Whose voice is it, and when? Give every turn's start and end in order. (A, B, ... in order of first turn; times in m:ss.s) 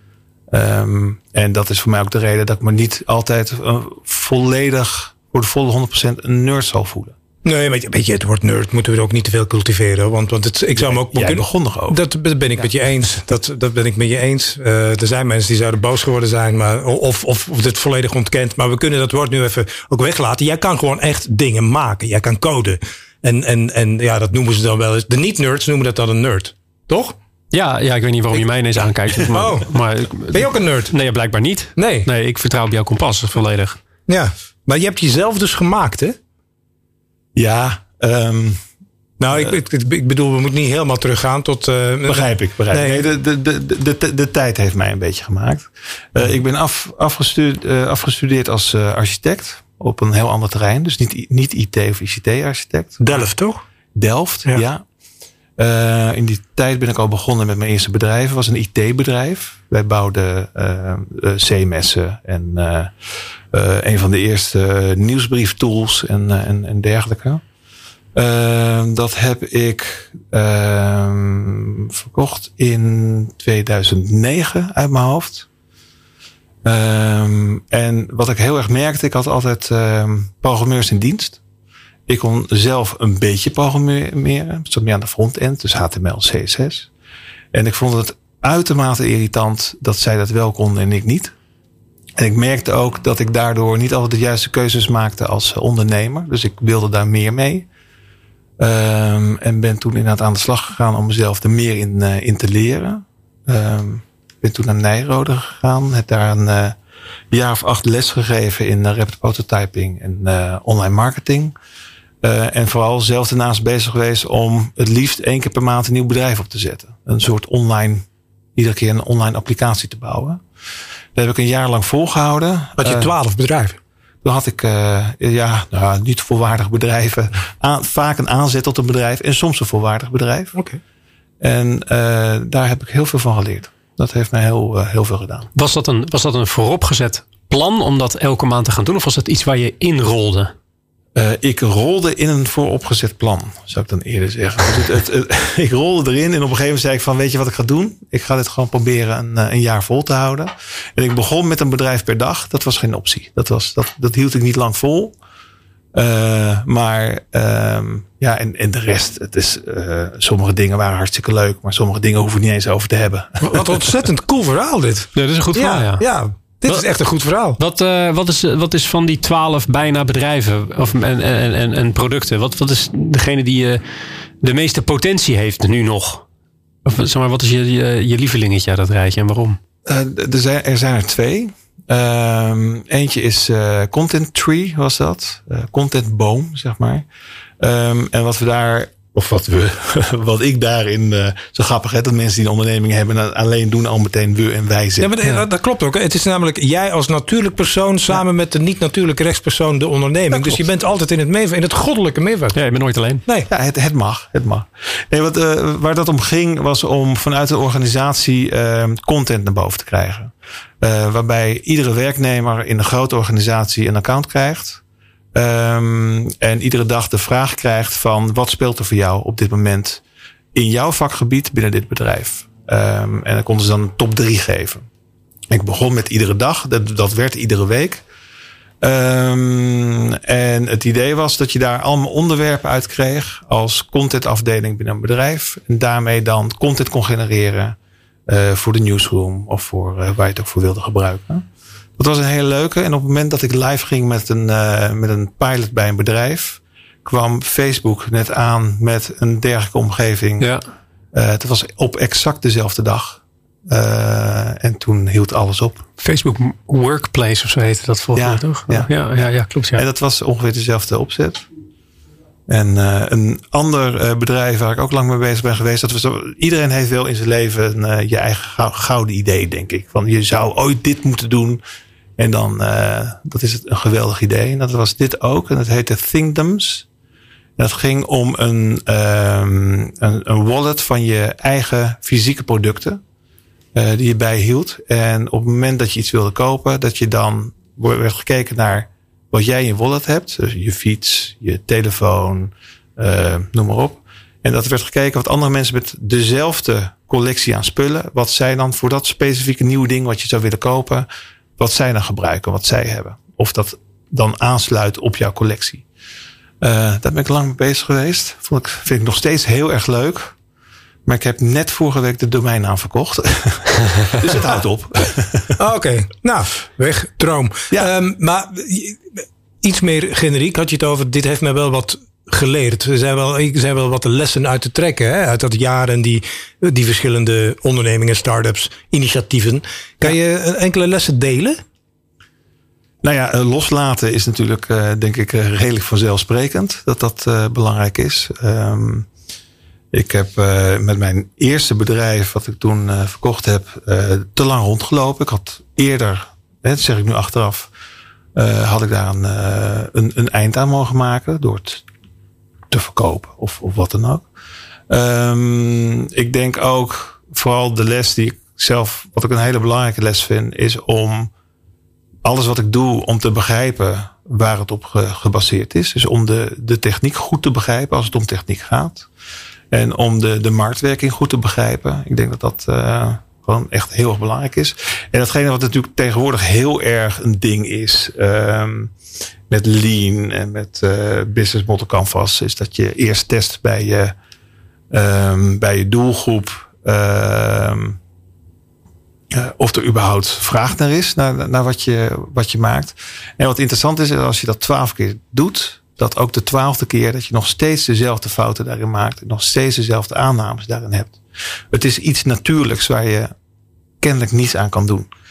0:00.5-0:07.1 A
0:07.4-0:27.1 B
0:10.7-0:12.0 A
0:27.5-0:33.8 C
0:29.2-0:29.7 B
0:30.3-0:30.9 B
0:31.8-0:32.1 B
0:34.1-0:36.2 B
0:37.3-0:38.6 A
0:39.2-0:43.0 B
0:42.0-0:53.3 A
0:53.0-0:53.6 B
0:53.9-0:54.8 A
0:55.6-1:02.9 A
1:03.5-1:07.4 A
1:08.1-1:15.5 A
1:16.6-1:21.4 A
1:22.1-1:26.9 A
1:27.5-1:31.3 A
1:32.2-1:37.6 A
1:38.6-1:46.8 A
1:47.3-1:51.5 A
1:52.2-1:58.0 A
1:58.6-2:00.4 A
2:01.1-2:03.1 A
2:02.8-2:03.8 B
2:04.2-2:10.6 A
2:11.4-2:15.5 A
2:15.5-2:20.5 C
2:21.2-2:35.1 A
2:35.9-2:43.8 A
2:43.4-2:47.6 B
2:45.2-2:46.0 C
2:47.6-2:53.8 C
2:54.4-2:56.2 C
2:56.8-2:59.6 C
2:59.8-3:07.0 A
3:07.6-3:15.1 A
3:15.0-3:22.6 B
3:20.3-3:20.6 A
3:22.5-3:23.2 C
3:23.5-3:34.8 A
3:35.3-3:40.0 A
3:40.5-3:44.9 A
3:45.5-3:48.0 A
3:48.8-3:57.8 A
3:58.3-4:01.4 A
4:02.0-4:10.5 A
4:10.4-4:10.6 C
4:11.1-4:15.8 A
4:16.0-4:19.8 C
4:18.2-4:18.9 A
4:19.7-4:21.4 A
4:22.5-4:31.6 A
4:32.2-4:36.8 A
4:37.6-4:43.0 A
4:43.7-5:01.1 A
5:01.6-5:05.8 A
5:06.6-5:10.3 A
5:11.0-5:15.6 A
5:15.6-5:31.6 B
5:33.0-5:39.1 A
5:39.9-5:47.7 A
5:48.3-5:51.8 A
5:52.7-5:54.2 A
5:54.9-6:01.3 A
6:02.2-6:09.1 A
6:09.7-6:18.9 A
6:19.5-6:24.1 A
6:24.9-6:28.0 A
6:29.3-6:41.2 A
6:41.7-6:43.3 A
6:44.0-6:45.1 A